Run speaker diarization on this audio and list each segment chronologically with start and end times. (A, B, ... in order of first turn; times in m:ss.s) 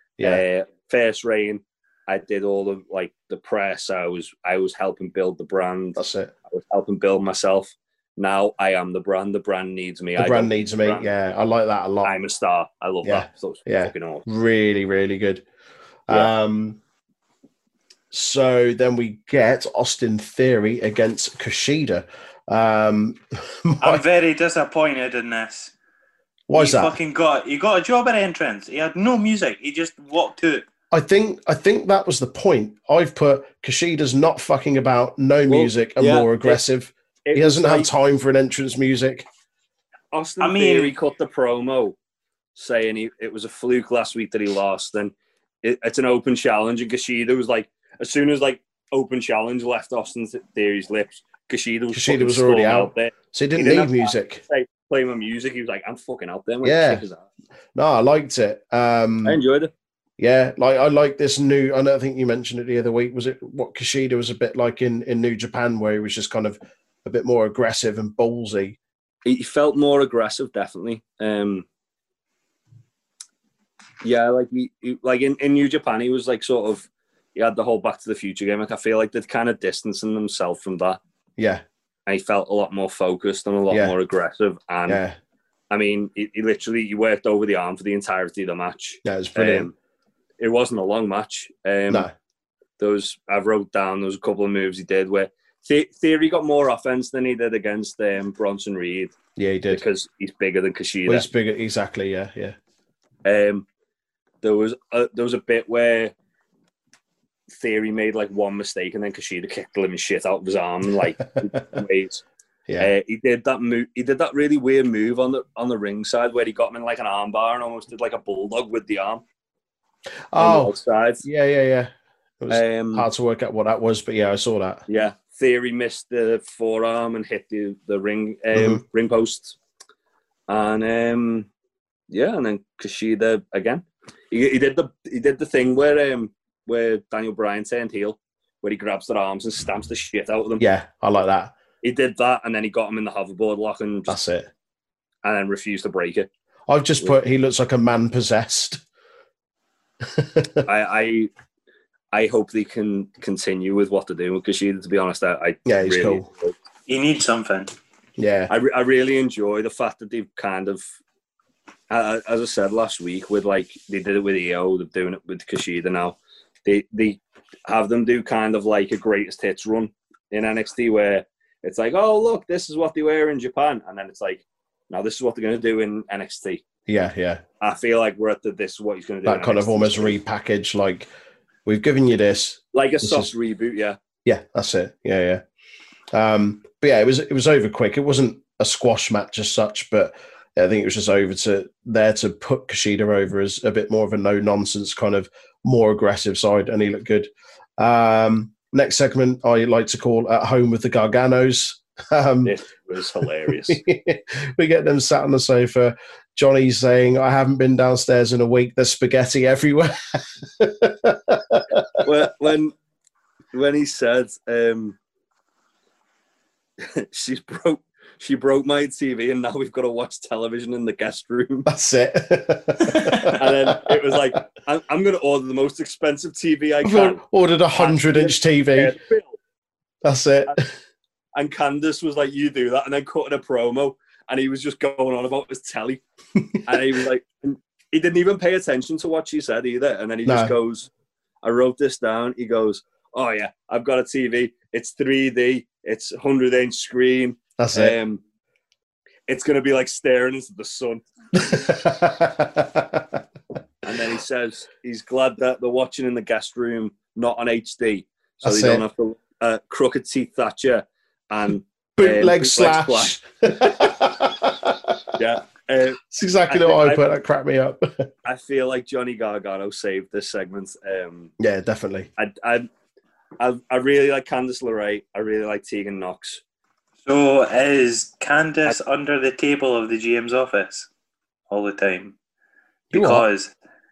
0:00.2-0:00.4 A
0:00.2-0:06.0 B
0:06.0-0:06.3 A
0:06.5-0:11.1 B
0:10.2-0:12.1 A
0:12.0-0:14.3 B
0:13.0-0:15.4 A
0:16.1-0:16.8 A
0:18.1-0:24.0 A
0:23.8-0:25.7 C
0:26.5-0:27.0 A
0:26.5-0:30.7 C
0:30.9-0:39.2 A
0:35.5-0:36.6 B
0:37.2-0:37.9 B
0:40.1-0:42.0 B
0:40.4-0:40.9 C
0:42.5-0:57.3 B
0:51.9-0:54.4 A
0:56.6-0:57.0 A
0:57.7-0:59.4 A
0:59.2-0:59.7 B
1:00.2-1:08.8 A
1:09.2-1:11.6 B
1:14.0-1:21.0 B
1:21.4-1:21.6 A
1:22.1-1:25.0 B
1:23.7-1:24.0 A
1:24.9-1:25.2 A
1:25.7-1:29.7 B
1:29.0-1:29.7 A
1:30.4-1:32.1 B
1:32.8-1:39.2 B
1:39.4-1:39.8 A
1:39.7-1:41.2 B
1:41.1-1:42.6 A
1:43.2-1:43.6 B
1:44.4-1:46.1 B
1:47.5-1:52.2 B
1:52.8-1:59.2 B
2:00.3-2:04.8 A
2:00.4-2:01.2 B
2:02.5-2:03.1 B
2:04.9-2:09.6 B
2:08.5-2:08.8 A
2:10.5-2:11.5 B
2:12.1-2:20.6 B
2:20.6-2:21.5 A
2:21.8-2:24.2 B
2:24.1-2:24.5 A
2:25.2-2:26.3 B
2:26.7-2:28.8 A
2:30.0-2:30.6 A
2:30.6-2:31.3 B
2:32.1-2:36.6 B
2:35.6-2:36.3 A
2:36.9-2:37.7 C
2:38.2-2:38.5 A
2:38.5-2:40.8 B
2:41.9-2:56.6 B
2:56.9-2:57.4 A
2:57.6-3:00.2 B
2:59.2-3:01.1 A
3:01.6-3:03.3 A
3:02.7-3:04.0 B
3:04.2-3:05.4 A
3:06.1-3:22.6 A
3:22.4-3:23.8 B
3:23.7-3:32.0 A
3:32.0-3:32.7 B
3:33.5-3:35.0 B
3:36.8-3:41.7 B
3:41.6-3:44.2 A
3:43.3-3:47.2 B
3:46.8-3:49.0 A
3:47.7-3:49.4 B
3:50.0-3:50.7 A
3:51.3-3:56.0 B
3:56.6-4:00.9 B
4:00.2-4:00.5 A
4:01.4-4:08.2 B
4:07.6-4:07.9 A
4:09.3-4:11.0 B
4:11.4-4:13.2 A
4:13.8-4:23.1 B
4:18.4-4:18.8 A
4:22.0-4:25.2 A
4:25.1-4:27.0 B
4:26.0-4:28.1 A
4:28.2-4:31.3 B
4:31.4-4:32.1 A
4:32.2-4:32.7 B
4:33.4-4:36.4 B
4:37.0-4:40.9 C
4:41.5-4:42.1 C
4:42.9-4:43.5 C
4:42.9-4:43.3 A